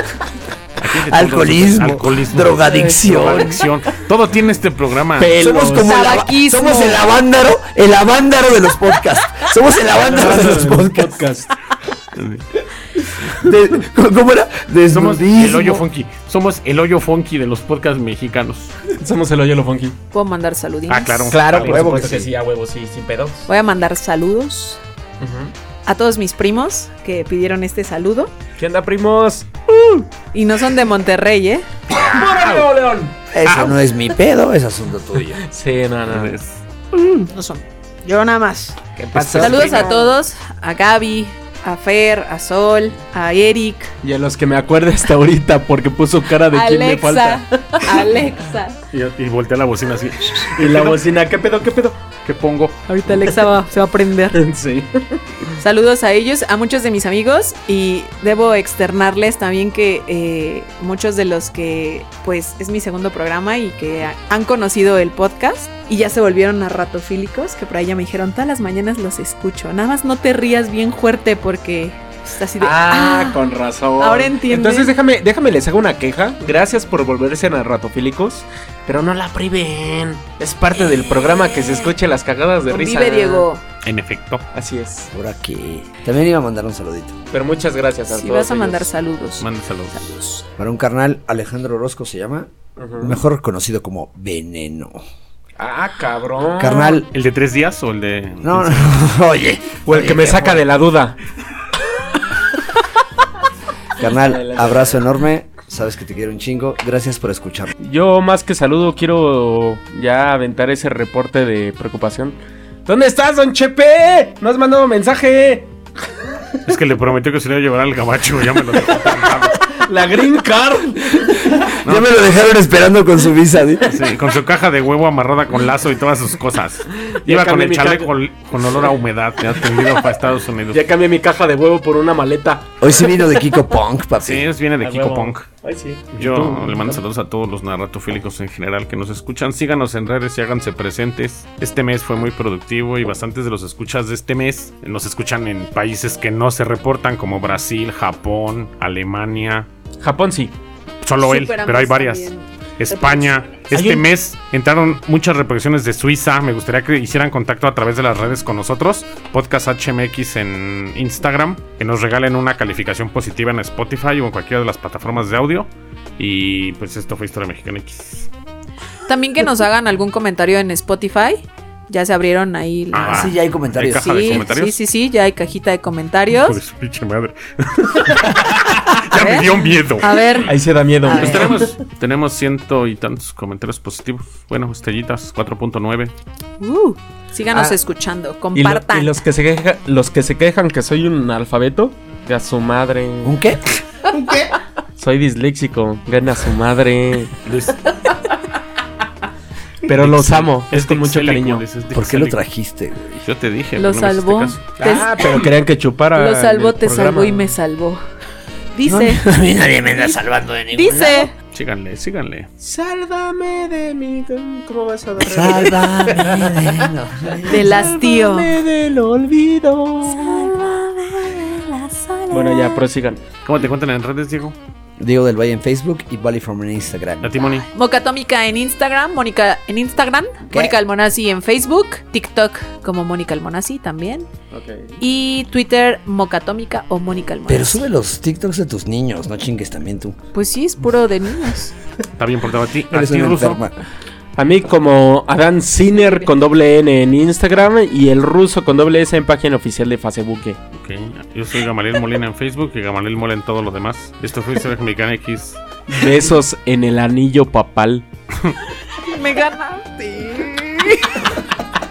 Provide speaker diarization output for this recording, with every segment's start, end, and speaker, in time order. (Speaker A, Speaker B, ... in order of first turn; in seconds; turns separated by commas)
Speaker A: 0.8-5.3, Speaker B: 0.9-3.6, Speaker C: 5.2-6.1, Speaker B: 5.3-11.2, Speaker D: 5.8-7.0, Speaker C: 9.9-11.5, Speaker A: 12.1-12.4, Speaker B: 13.2-15.8, Speaker A: 14.9-18.8, Speaker C: 18.9-20.0, Speaker D: 20.1-21.3, Speaker A: 20.9-22.3, Speaker C: 21.3-23.5, Speaker B: 21.6-22.1, Speaker D: 23.5-24.8, Speaker C: 25.2-25.5, Speaker D: 25.9-28.3, Speaker C: 28.6-29.5, Speaker D: 29.7-31.7, Speaker A: 31.9-32.7, Speaker C: 32.0-33.1, Speaker B: 33.3-35.4, Speaker A: 33.4-33.8, Speaker C: 35.4-36.4, Speaker A: 36.1-36.6, Speaker D: 36.9-38.8, Speaker C: 39.0-40.1, Speaker B: 39.1-39.8, Speaker A: 39.2-39.9, Speaker D: 39.4-44.0, Speaker C: 44.0-48.1, Speaker D: 46.5-48.8, Speaker A: 48.9-51.0, Speaker C: 50.6-52.0, Speaker A: 52.2-52.8, Speaker D: 52.9-54.4, Speaker C: 54.4-55.2, Speaker D: 55.6-73.4, Speaker C: 72.6-83.5, Speaker D: 74.0-74.9, Speaker D: 82.7-83.6, Speaker A: 83.8-84.5, Speaker C: 84.5-85.1, Speaker B: 85.1-87.2, Speaker C: 87.3-88.9, Speaker D: 88.1-90.5, Speaker A: 89.4-90.1, Speaker B: 90.6-95.0, Speaker C: 92.8-93.2, Speaker C: 95.6-97.0, Speaker B: 96.6-97.1, Speaker A: 97.1-99.1, Speaker B: 98.4-100.7, Speaker C: 99.9-101.2, Speaker B: 104.0-107.8, Speaker C: 104.1-105.0, Speaker C: 107.8-115.7, Speaker A: 116.7-119.6, Speaker C: 119.8-121.7, Speaker A: 121.8-122.4, Speaker B: 121.8-124.0, Speaker A: 123.8-130.8, Speaker C: 127.0-128.1, Speaker C: 130.7-133.6, Speaker B: 132.8-134.5, Speaker A: 134.2-135.5, Speaker C: 134.8-137.0, Speaker A: 136.2-149.7, Speaker C: 150.0-150.6, Speaker A: 151.0-168.3, Speaker D: 151.2-153.3, Speaker C: 153.7-154.1, Speaker D: 169.1-173.4, Speaker A: 172.9-174.8, Speaker B: 173.1-174.4, Speaker D: 174.0-176.6, Speaker A: 176.3-180.5, Speaker D: 179.1-181.6, Speaker C: 180.5-181.8, Speaker A: 181.1-186.1, Speaker D: 186.6-189.2, Speaker C: 188.6-193.4, Speaker B: 193.2-193.6, Speaker C: 195.0-197.4, Speaker A: 197.4-197.8, Speaker C: 199.9-201.7, Speaker A: 199.9-202.4, Speaker B: 201.9-203.2, Speaker A: 203.2-204.7, Speaker D: 203.8-205.5, Speaker C: 204.8-207.5, Speaker D: 206.1-208.0, Speaker D: 208.7-209.3, Speaker B: 208.9-211.3, Speaker D: 209.9-211.3, Speaker A: 211.4-212.5, Speaker C: 212.6-220.6, Speaker B: 215.2-217.8, Speaker D: 217.5-218.6, Speaker D: 220.1-222.8, Speaker C: 222.3-223.2, Speaker A: 223.4-224.6, Speaker B: 225.0-227.4, Speaker A: 227.2-227.7, Speaker D: 227.7-234.3, Speaker C: 234.5-235.0, Speaker D: 235.0-237.8, Speaker B: 237.5-240.2, Speaker D: 240.3-241.7, Speaker A: 242.2-243.6, Speaker B: 242.9-243.7, Speaker C: 244.4-250.6, Speaker A: 250.7-255.6, Speaker C: 255.9-258.1, Speaker D: 259.0-261.2